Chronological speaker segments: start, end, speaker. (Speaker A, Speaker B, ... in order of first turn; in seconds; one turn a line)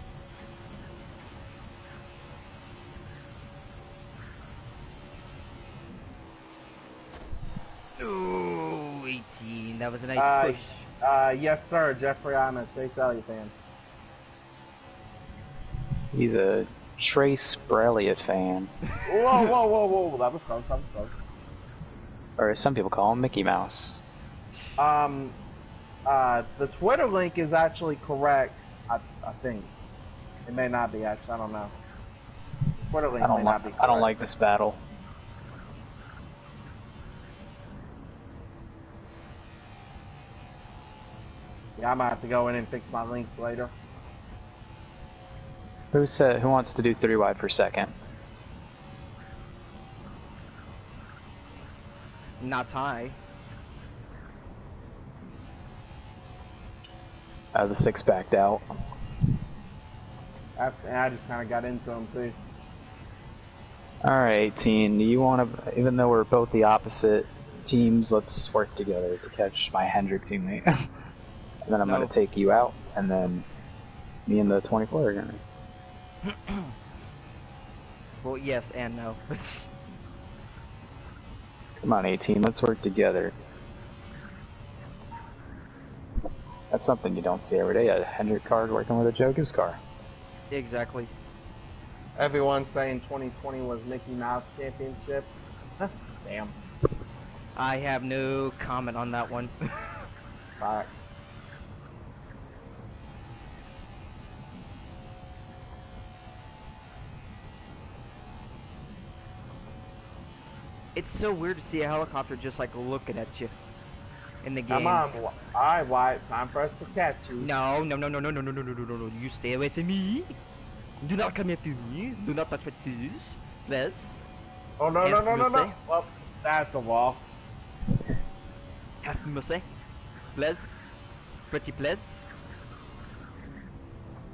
Speaker A: 8.0-10.9
Speaker B: 10.2-13.5
Speaker C: 16.1-18.7
Speaker B: 19.1-21.1
Speaker C: 22.4-24.0
Speaker B: 24.8-25.4
Speaker B: 26.1-29.7
Speaker B: 30.5-31.7
Speaker B: 32.9-34.1
Speaker C: 33.2-34.8
Speaker B: 41.8-43.7
Speaker C: 45.9-47.9
Speaker A: 52.4-53.2
Speaker C: 57.5-58.7
Speaker B: 60.6-62.4
Speaker C: 64.0-70.7
Speaker C: 71.7-73.5
Speaker A: 71.9-72.1
Speaker C: 74.3-75.4
Speaker A: 76.3-76.7
Speaker A: 78.2-79.7
Speaker C: 81.8-83.3
Speaker C: 86.7-89.8
Speaker A: 90.5-91.1
Speaker B: 92.2-96.6
Speaker A: 97.6-99.9
Speaker B: 100.6-101.0
Speaker A: 111.0-113.5
Speaker A: 114.4-115.1
Speaker B: 114.7-117.5
Speaker A: 117.4-120.4
Speaker A: 121.0-124.2
Speaker B: 124.8-127.3
Speaker A: 125.0-125.8
Speaker A: 129.0-129.7
Speaker A: 130.3-130.9
Speaker A: 131.5-132.2